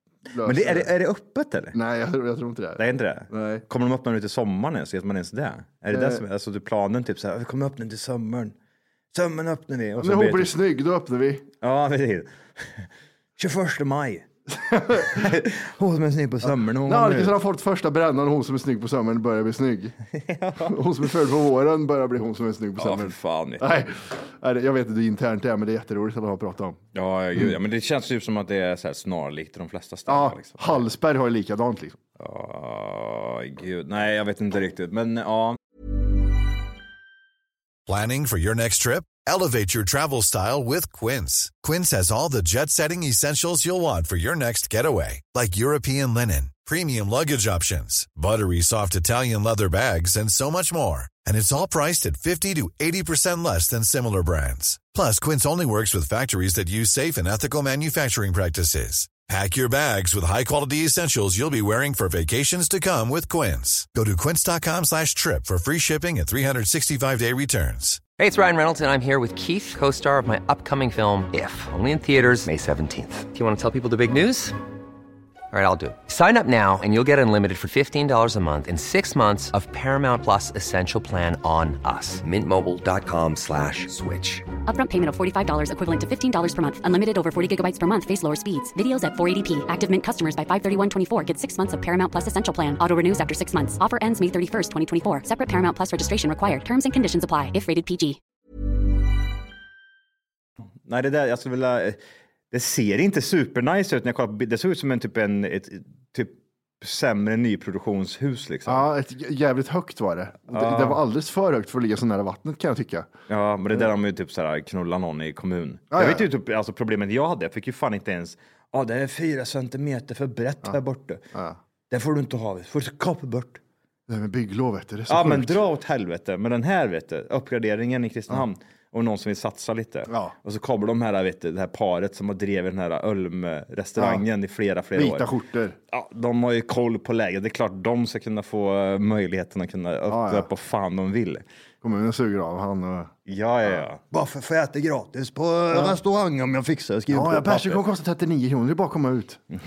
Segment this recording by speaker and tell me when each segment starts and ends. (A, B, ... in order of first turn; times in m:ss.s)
0:00.3-0:00.9 A
0:00.4-0:01.8 B
0:01.7-0:03.6 A
0:02.8-0:08.5 B
0:05.9-0:06.2 A
0:09.1-0:10.5 B
0:10.0-0:11.4 A
0:11.6-0:14.3 B
0:14.5-0:15.3 A
0:15.0-0:17.3 B
0:16.5-0:20.0 A
0:20.1-0:20.8 B
0:20.6-0:26.8 A
0:22.8-0:23.7 B
0:26.9-0:30.8 B
0:30.1-0:32.0 A
0:32.2-0:35.6 B
0:37.9-1:08.0 C
1:08.2-1:14.6 D
1:15.5-1:24.5 D
1:24.6-1:38.2 E
1:40.9-1:42.0 B
1:42.5-1:48.8 B
1:48.7-1:53.1 A
1:50.5-1:51.0 B
1:53.3-2:01.2 B
1:55.9-1:56.2 A
2:01.3-2:01.6 A
2:01.9-2:03.6 B
2:04.1-2:05.5 A
2:05.1-2:15.3 B
2:10.1-2:10.3 A
2:14.0-2:14.2 A
2:15.0-2:15.8 A
2:15.9-2:21.4 B
2:20.1-2:20.5 A
2:21.8-2:23.1 A
2:23.3-2:27.8 B
2:27.1-2:29.4 A